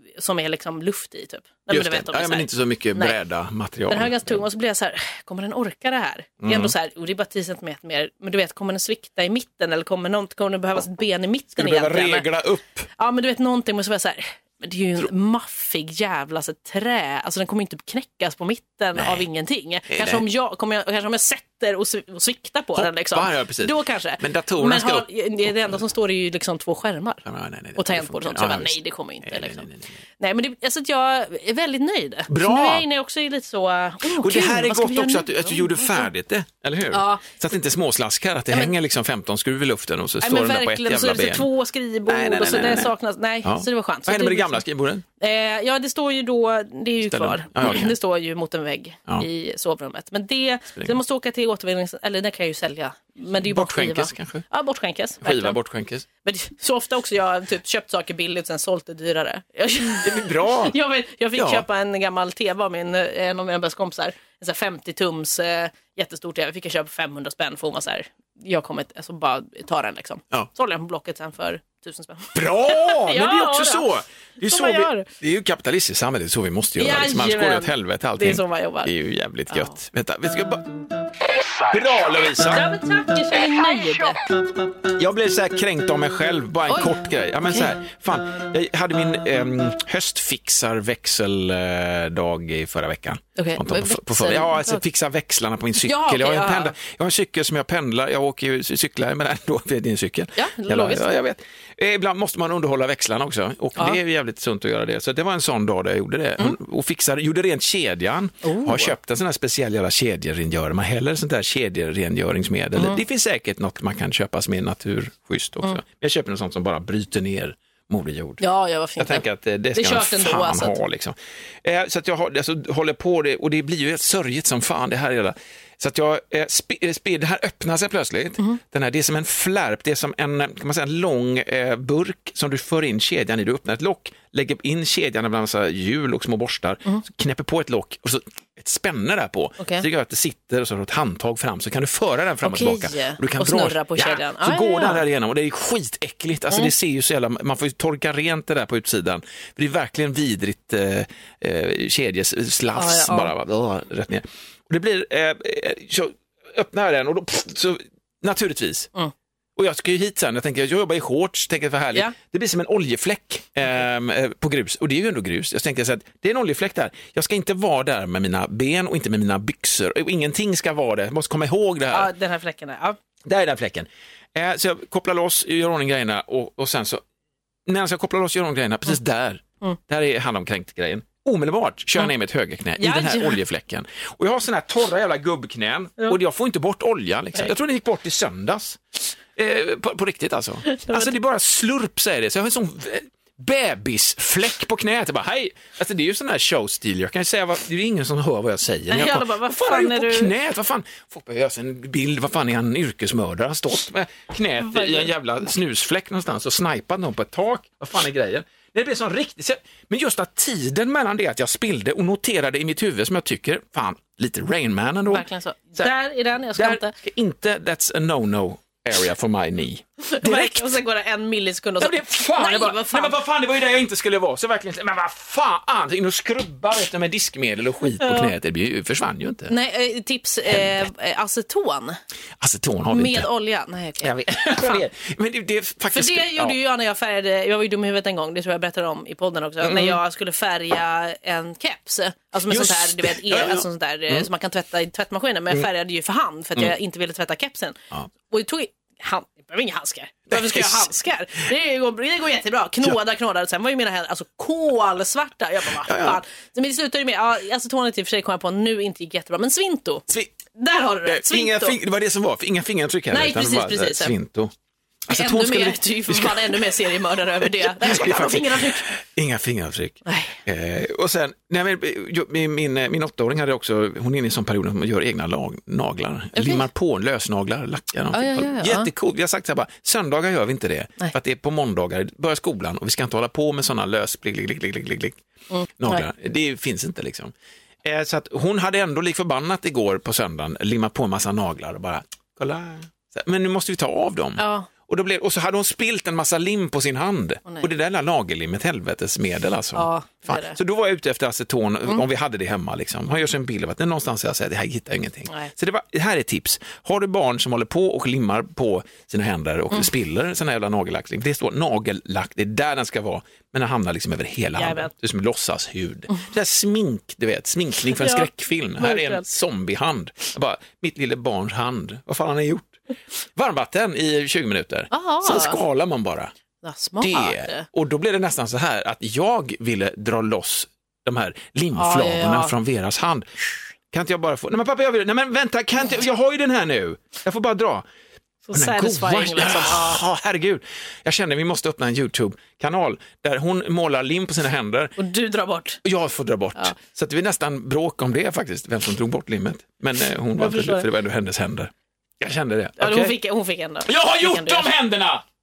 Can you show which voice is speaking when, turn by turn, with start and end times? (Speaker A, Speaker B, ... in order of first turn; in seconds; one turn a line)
Speaker A: 0.2-3.1
Speaker B: 1.7-4.4
Speaker A: 3.9-12.3
Speaker B: 6.4-6.7
Speaker B: 11.6-12.9
Speaker A: 13.0-27.2
Speaker B: 19.0-19.2
Speaker B: 19.9-20.2
Speaker B: 22.8-25.8
Speaker B: 27.3-30.0
Speaker A: 27.8-29.7
Speaker A: 30.2-36.1
Speaker B: 32.3-32.9
Speaker B: 34.1-41.5
Speaker A: 36.9-37.2
Speaker A: 40.2-44.6
Speaker B: 42.1-42.9
Speaker B: 43.5-45.0
Speaker A: 45.2-55.6
Speaker B: 47.1-47.9
Speaker B: 53.4-54.5
Speaker B: 55.2-56.1
Speaker A: 56.2-73.8
Speaker B: 60.0-60.8
Speaker B: 61.4-61.6
Speaker B: 72.3-80.7
Speaker A: 74.5-75.1
Speaker A: 76.8-78.9
Speaker A: 79.5-79.8
Speaker B: 81.7-82.7
Speaker A: 82.5-84.2
Speaker B: 85.0-118.4
Speaker A: 86.7-87.0
Speaker A: 93.4-94.8
Speaker A: 95.8-96.7
Speaker A: 100.4-101.1
Speaker A: 108.4-108.9
Speaker A: 118.4-120.8
Speaker B: 119.0-158.9
Speaker A: 139.6-139.8
Speaker A: 142.4-145.0
Speaker A: 152.8-153.3
Speaker B: 159.6-172.1
Speaker A: 171.9-173.0
Speaker B: 173.3-177.0
Speaker B: 177.7-188.8
Speaker A: 182.8-183.4
Speaker B: 189.3-215.2
Speaker A: 190.7-191.1
Speaker A: 198.9-200.3
Speaker A: 204.6-205.1
Speaker A: 215.1-216.9
Speaker B: 216.6-220.7
Speaker A: 220.1-223.2
Speaker B: 221.8-229.5
Speaker A: 228.0-228.3
Speaker A: 229.5-232.0
Speaker B: 230.5-230.8
Speaker B: 232.4-233.3
Speaker A: 232.9-234.8
Speaker B: 234.0-236.6
Speaker A: 235.9-261.8
Speaker B: 239.6-240.0
Speaker B: 242.5-244.3
Speaker B: 250.3-250.9
Speaker B: 255.8-256.2
Speaker B: 261.1-264.5
Speaker A: 263.1-264.1
Speaker B: 265.1-266.8
Speaker A: 265.1-268.9
Speaker B: 267.4-285.2
Speaker A: 270.1-270.4
Speaker A: 276.4-276.7
Speaker A: 278.1-278.9
Speaker A: 285.5-286.1
Speaker B: 285.8-287.3
Speaker B: 287.8-322.8
Speaker A: 294.4-294.7
Speaker A: 299.8-300.6
Speaker A: 314.6-314.9
Speaker A: 318.0-318.3
Speaker A: 318.8-319.2
Speaker B: 323.4-326.3
Speaker A: 324.9-325.6
Speaker A: 326.6-327.7
Speaker B: 327.0-337.9
Speaker A: 331.8-332.5
Speaker A: 338.5-340.0
Speaker B: 338.5-344.9
Speaker A: 345.0-345.8
Speaker B: 345.8-353.1
Speaker A: 350.4-350.9
Speaker A: 352.8-354.7
Speaker B: 353.9-355.2